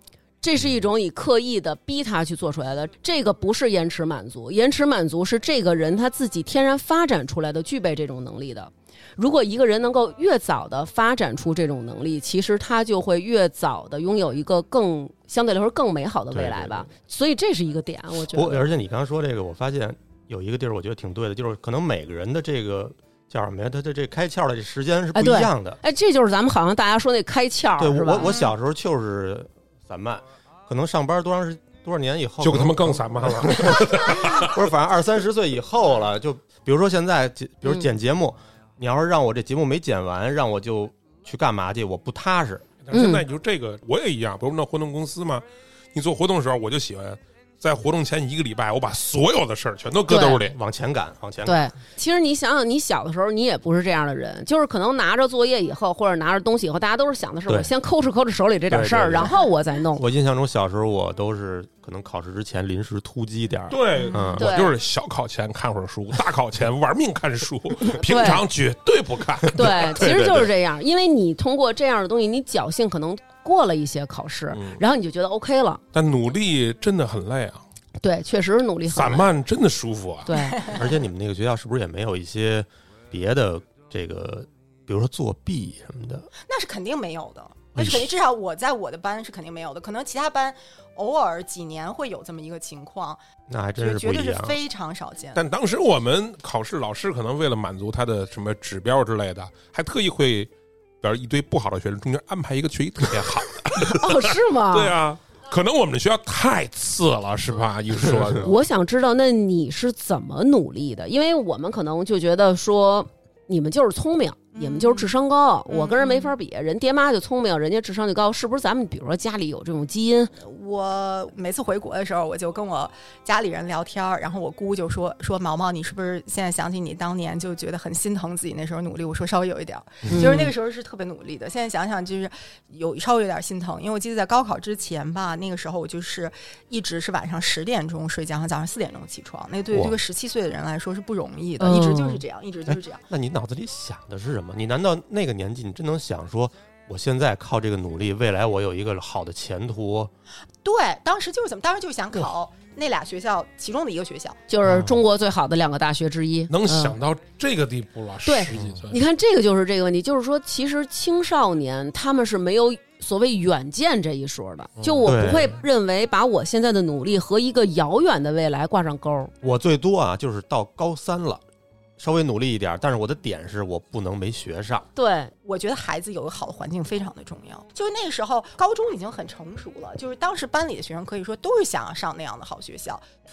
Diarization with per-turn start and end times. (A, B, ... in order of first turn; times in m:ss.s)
0:00.4-0:18.7 A
0:16.3-0:16.9 B
0:18.3-0:25.8 B
0:25.1-0:28.4 A
0:27.8-0:42.7 B
0:28.2-0:28.5 C
0:32.4-0:34.5 D
0:42.8-0:50.6 D
0:42.9-0:43.2 A
0:50.1-0:50.4 A
0:50.4-0:51.6 B
0:51.4-1:00.0 A
0:58.7-0:59.4 B
0:59.9-1:04.5 B
1:03.7-1:10.5 D
1:04.4-1:04.7 A
1:07.9-1:08.4 A
1:09.5-1:15.8 A
1:14.5-1:14.8 D
1:15.9-1:17.6 D
1:18.0-1:19.3 A
1:18.9-1:20.3 D
1:20.3-1:20.6 A
1:20.6-1:20.8 C
1:20.7-1:26.3 B
1:26.4-1:33.2 C
1:27.8-1:28.1 B
1:33.5-1:34.6 B
1:33.8-1:35.4 C
1:35.3-1:48.5 D
1:43.8-1:45.0 A
1:48.4-2:00.3 A
1:54.5-1:55.1 C
1:55.7-1:56.3 C
2:00.4-2:23.0 C
2:10.1-2:10.5 A
2:19.7-2:20.0 B
2:21.6-2:22.2 A
2:22.7-2:30.1 B
2:30.6-2:34.4 C
2:34.5-2:37.0 A
2:34.6-2:35.0 B
2:36.5-2:39.0 D
2:38.2-2:49.3 A
2:38.5-2:38.8 B
2:44.8-2:45.1 D
2:45.0-2:45.6 B
2:49.4-2:51.4 B
2:52.0-2:54.9 B
2:55.0-2:55.3 A
2:55.4-3:03.0 C